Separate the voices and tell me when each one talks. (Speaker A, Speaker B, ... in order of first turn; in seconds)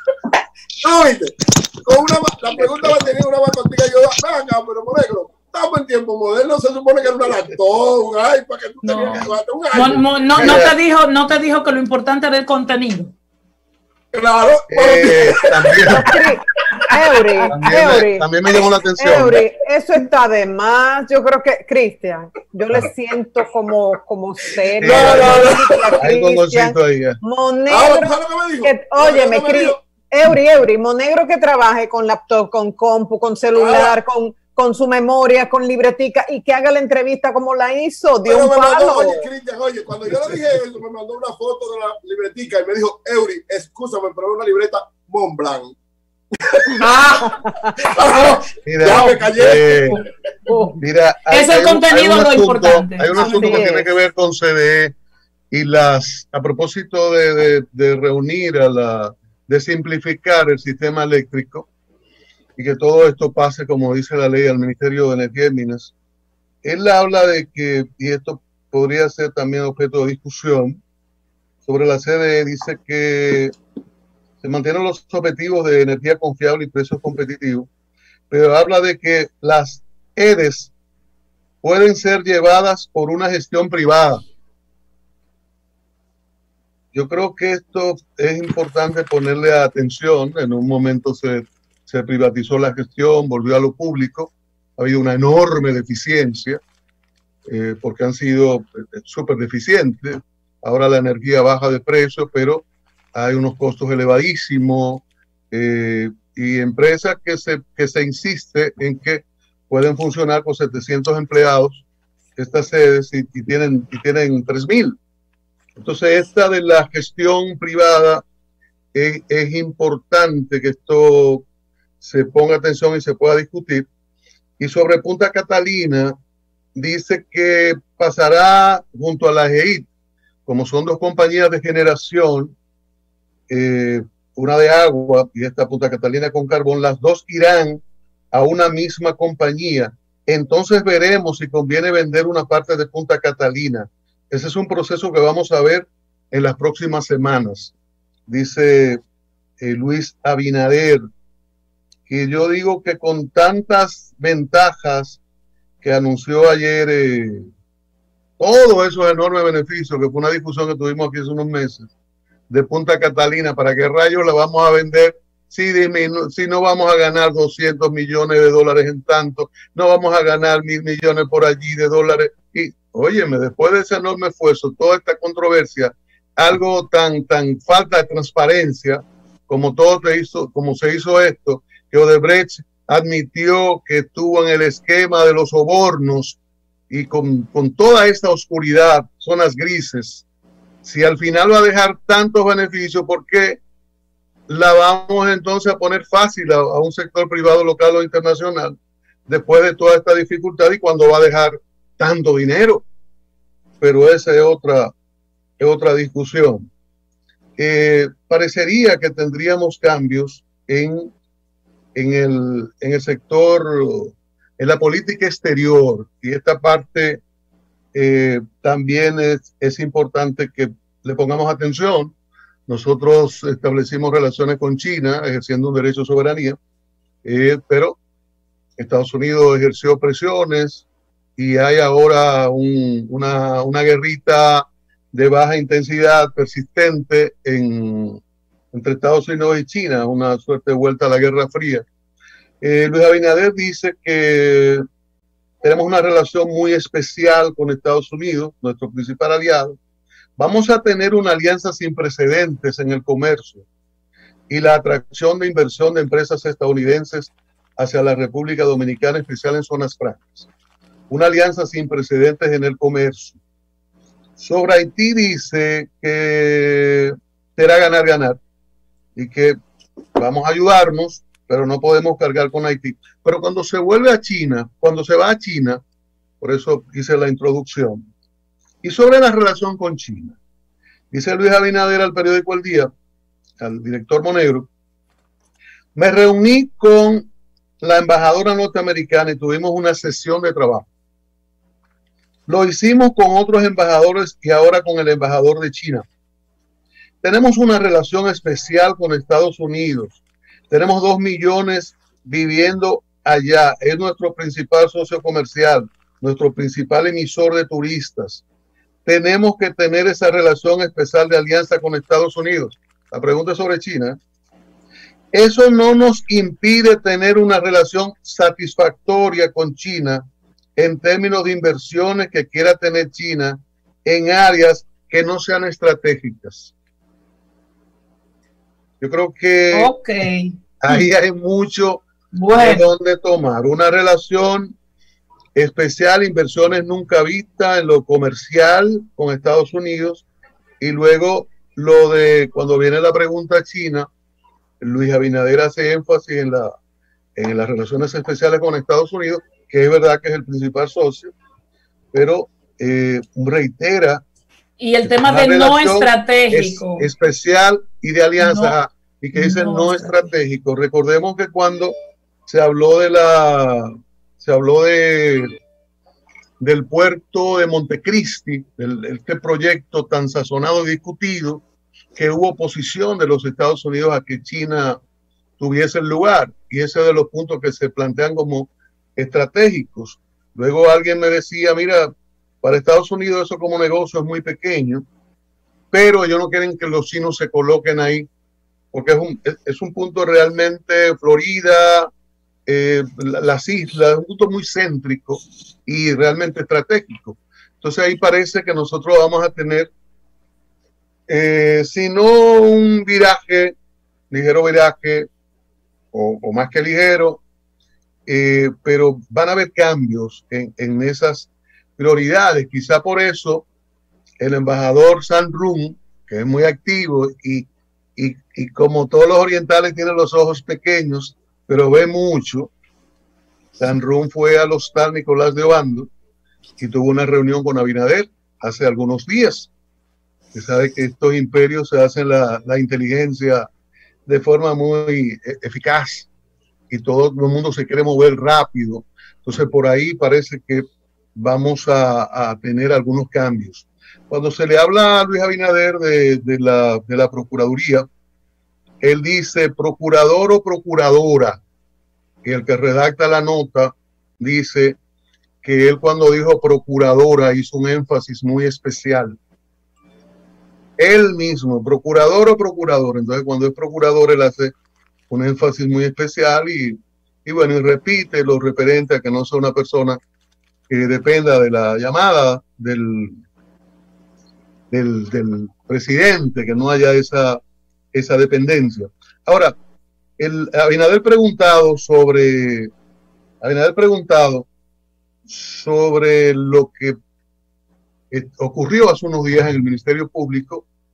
Speaker A: 0.8-10.6, 14.1-16.2, 24.8-26.0, 27.7-29.8, 33.5-34.0, 38.2-45.8, 46.5-47.3, 47.9-50.0
Speaker B: 8.8-13.1, 46.8-47.3, 51.3-53.8, 329.7-331.1, 332.3-332.9, 354.8-357.1, 358.4-358.8, 359.4-360.2
Speaker C: 10.4-10.8, 14.7-16.1, 17.5-19.4, 24.8-25.5, 26.0-27.2, 48.6-50.0, 50.8-54.9, 55.5-61.7, 62.6-65.9, 66.6-70.8, 71.7-73.5, 74.4-77.7, 78.3-80.7, 81.6-84.2, 86.9-96.6, 97.5-111.8, 112.4-115.0, 115.8-118.2, 118.9-121.5, 122.0-123.9, 124.6-126.2, 126.8-129.9, 130.5-132.6, 133.5-147.7, 148.3-149.0, 149.6-151.0, 152.1-155.2, 155.8-157.5, 158.4-161.9, 162.5-186.4, 186.9-190.2, 190.8-193.6, 194.5-198.8, 199.3-202.8, 203.8-204.9, 205.6-206.7, 207.6-211.1, 211.9-217.2, 217.9-222.1, 222.7-226.6, 227.2-228.0, 228.8-230.8, 231.4-238.2, 238.7-241.8, 242.6-244.8, 245.6-249.8, 250.4-253.7, 254.5-260.5, 261.1-263.4, 264.4-268.4, 269.1-269.6, 270.2-275.8, 276.4-278.1, 278.8-280.4, 281.1-282.9, 283.6-284.7, 285.9-287.3, 287.8-290.9, 292.5-296.1, 297.2-308.4, 309.1-314.2, 315.3-320.2, 320.8-326.7, 329.0-329.9, 330.8-334.8, 335.6-340.2, 340.8-344.1, 344.8-346.7, 347.4-351.3, 352.1-354.2, 355.0-361.9, 362.5-365.5, 366.6-371.6, 372.1-375.0, 375.6-382.1, 382.6-385.1, 385.9-388.3, 388.9-392.1, 392.7-399.9, 401.3-403.8, 404.3-405.3, 406.1-407.4, 408.3-413.6, 414.4-422.7, 423.8-426.1, 426.8-429.7, 430.5-433.7, 434.3-436.3, 436.9-448.1, 449.0-451.6, 452.4-455.0, 455.6-459.4, 461.0-464.7, 465.3-470.2, 470.9-473.4, 474.9-477.6, 478.1-479.8, 480.4-482.9, 483.6-484.7, 485.5-487.2, 488.3-490.9
Speaker D: 15.9-18.3, 19.0-39.3, 50.5-50.8, 53.2-53.9